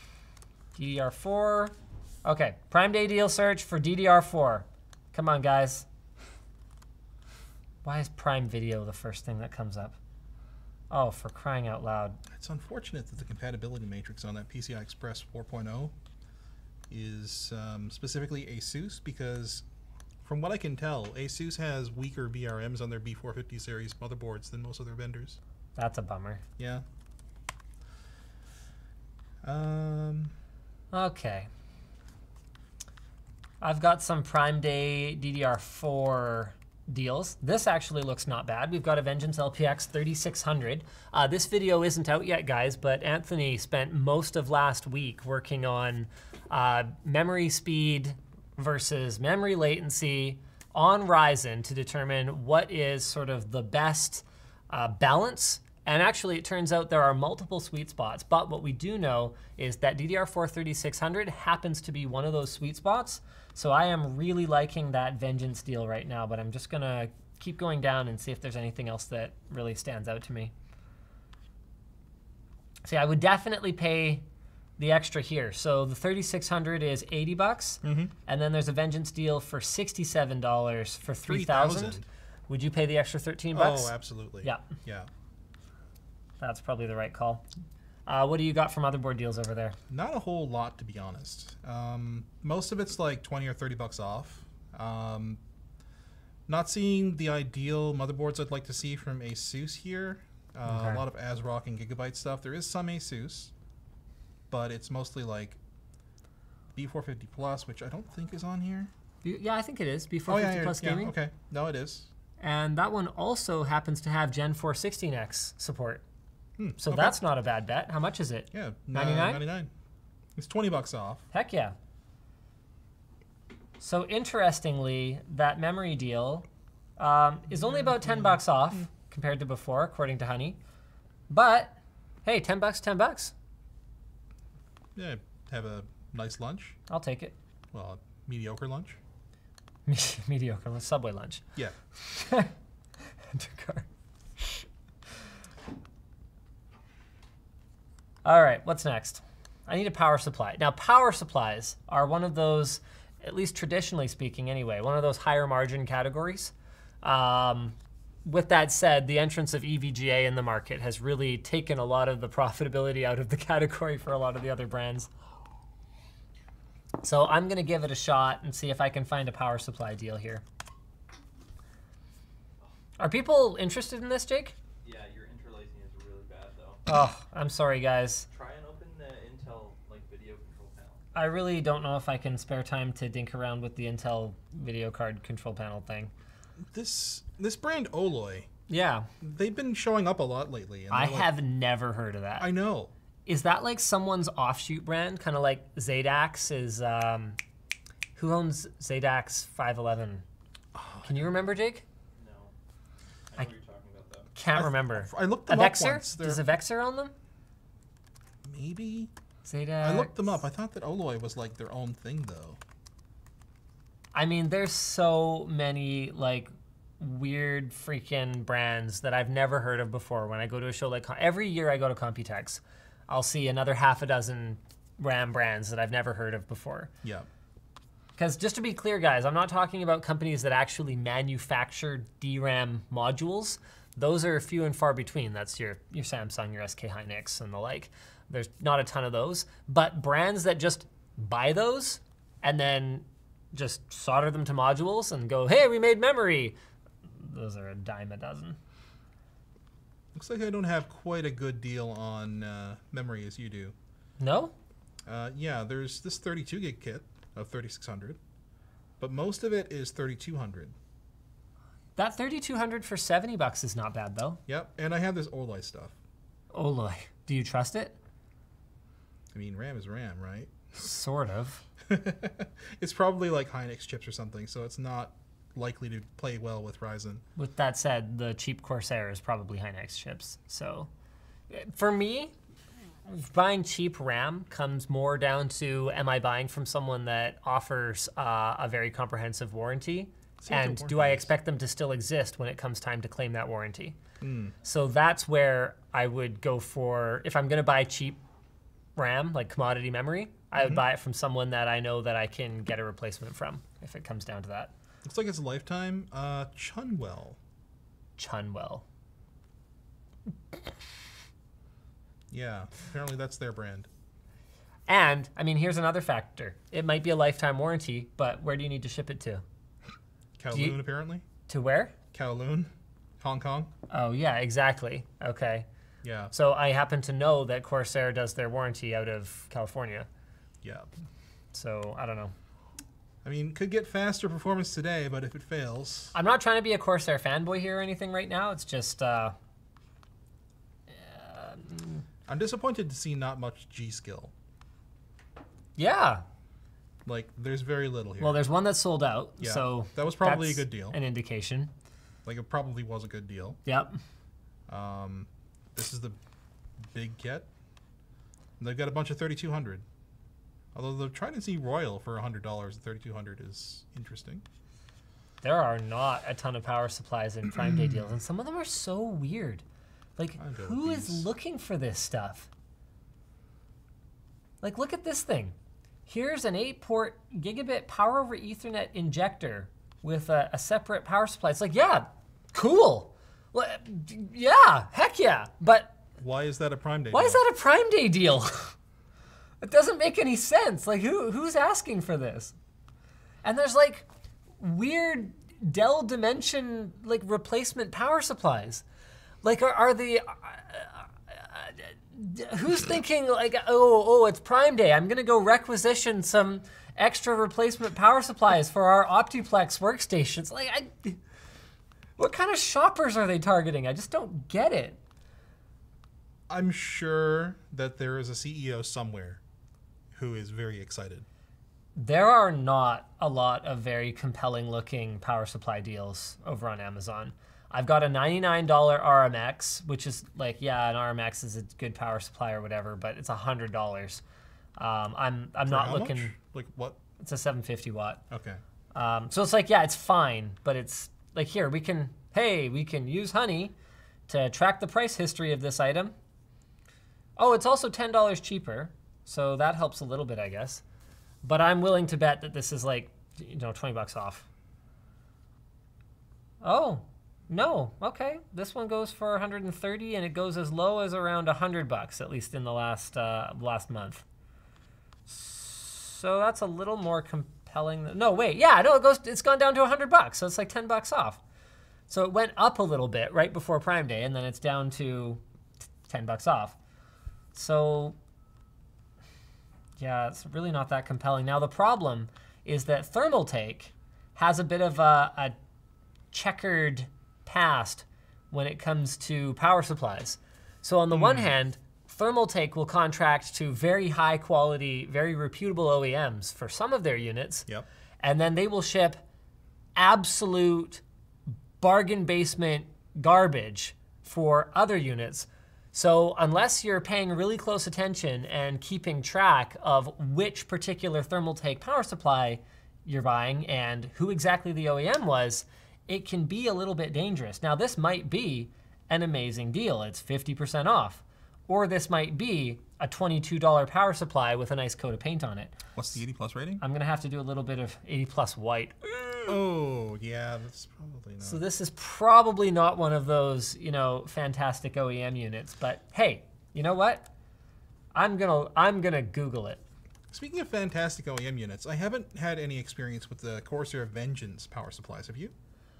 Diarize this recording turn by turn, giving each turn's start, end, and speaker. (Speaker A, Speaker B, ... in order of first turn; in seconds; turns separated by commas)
Speaker A: 0.7-1.7, Speaker A: 2.2-5.8, Speaker A: 7.8-10.0, Speaker A: 10.9-12.2, Speaker B: 12.3-15.9, Speaker B: 16.9-19.6, Speaker B: 20.2-25.4, Speaker A: 25.8-26.4, Speaker B: 26.6-26.8, Speaker B: 29.4-30.3, Speaker A: 30.9-31.5, Speaker A: 33.6-70.5, Speaker A: 72.8-74.2, Speaker A: 74.8-84.7, Speaker B: 77.8-78.1, Speaker B: 81.2-82.0, Speaker B: 83.5-85.1, Speaker A: 86.4-87.4, Speaker A: 88.0-89.8, Speaker B: 89.9-95.4, Speaker B: 96.5-103.5, Speaker A: 100.7-101.0, Speaker B: 104.5-105.6, Speaker B: 106.7-108.9, Speaker A: 109.2-111.1, Speaker B: 110.3-112.1, Speaker A: 112.4-116.0, Speaker B: 116.6-117.2, Speaker A: 116.8-119.4, Speaker B: 118.5-119.7, Speaker B: 120.3-121.2, Speaker A: 121.3-121.8, Speaker A: 123.8-126.5, Speaker A: 127.0-130.6, Speaker B: 127.5-128.4, Speaker A: 131.3-133.3, Speaker B: 134.9-136.8, Speaker A: 136.9-137.3, Speaker B: 137.7-139.0, Speaker A: 139.9-143.9, Speaker A: 144.4-144.6, Speaker A: 148.2-165.1, Speaker A: 167.0-170.4, Speaker A: 173.0-174.5, Speaker C: 174.8-176.8, Speaker A: 176.8-178.2, Speaker C: 178.3-181.1, Speaker A: 181.1-186.1, Speaker B: 186.6-188.5, Speaker A: 188.7-189.1, Speaker B: 189.2-191.3, Speaker A: 190.9-192.5, Speaker B: 192.4-192.9, Speaker A: 193.2-197.4, Speaker A: 198.1-200.2, Speaker B: 200.7-201.5, Speaker A: 201.0-201.8, Speaker C: 202.1-202.5, Speaker C: 203.3-204.3, Speaker A: 204.3-207.1, Speaker B: 204.5-206.4, Speaker B: 208.4-209.1, Speaker A: 209.4-210.1, Speaker B: 209.8-212.6, Speaker A: 214.1-226.9, Speaker B: 227.0-227.3, Speaker A: 228.2-246.6, Speaker A: 247.1-248.6, Speaker B: 250.1-253.7, Speaker A: 254.2-254.5, Speaker B: 255.1-258.2, Speaker B: 259.0-260.7, Speaker A: 261.9-264.4, Speaker B: 264.5-265.9, Speaker A: 266.5-267.9, Speaker B: 269.3-270.7, Speaker A: 270.7-271.6, Speaker B: 271.9-277.2, Speaker A: 277.4-280.9, Speaker A: 281.5-282.3, Speaker A: 283.1-294.0, Speaker B: 290.4-291.3, Speaker B: 294.2-294.5, Speaker A: 294.6-298.2, Speaker A: 298.9-304.7, Speaker B: 300.6-300.8, Speaker B: 305.0-307.4, Speaker A: 308.2-308.8, Speaker B: 312.3-313.9, Speaker A: 314.9-319.4, Speaker B: 320.4-321.2, Speaker A: 320.5-320.8, Speaker A: 321.5-321.9, Speaker B: 322.1-323.7, Speaker A: 323.9-325.7, Speaker B: 326.0-326.3, Speaker A: 326.3-330.1, Speaker B: 330.6-330.9, Speaker A: 331.5-332.3, Speaker B: 333.2-336.1, Speaker A: 336.1-339.4, Speaker A: 340.9-342.0, Speaker B: 342.3-344.3, Speaker A: 345.8-346.2, Speaker B: 347.1-348.4, Speaker A: 348.2-351.7, Speaker B: 349.4-351.0, Speaker B: 352.2-353.6, Speaker A: 353.6-354.0, Speaker B: 354.7-356.2, Speaker B: 356.9-357.5, Speaker B: 358.6-359.8, Speaker B: 360.7-364.4, Speaker A: 365.4-369.6, Speaker B: 367.6-368.0, Speaker A: 370.2-372.5, Speaker B: 370.4-371.2, Speaker A: 374.6-375.5, Speaker A: 376.1-385.9, Speaker B: 386.2-387.4, Speaker A: 387.1-388.7, Speaker A: 389.6-392.5, Speaker A: 393.4-394.1, Speaker A: 394.6-398.8, Speaker A: 399.4-411.2, Speaker A: 412.2-415.0, Speaker B: 416.5-419.4, Speaker B: 420.1-421.2, Speaker A: 421.9-434.2, Speaker A: 434.8-436.3, Speaker B: 435.7-437.0, Speaker A: 437.2-438.2, Speaker B: 438.3-438.6, Speaker A: 438.9-443.7, Speaker A: 444.3-446.1, Speaker A: 447.4-450.8, Speaker A: 451.4-454.4, Speaker A: 456.6-464.2, Speaker A: 465.3-471.4, Speaker A: 472.1-475.4, Speaker A: 476.1-476.8, Speaker A: 477.5-478.2, Speaker A: 480.0-485.6, Speaker A: 486.3-497.7, Speaker B: 491.1-491.5, Speaker A: 498.2-499.2, Speaker A: 499.9-501.0, Speaker A: 501.8-525.7, Speaker B: 525.9-526.8, Speaker A: 526.8-529.5, Speaker B: 529.5-531.6, Speaker A: 531.4-537.3, Speaker A: 538.1-539.8, Speaker B: 540.3-545.5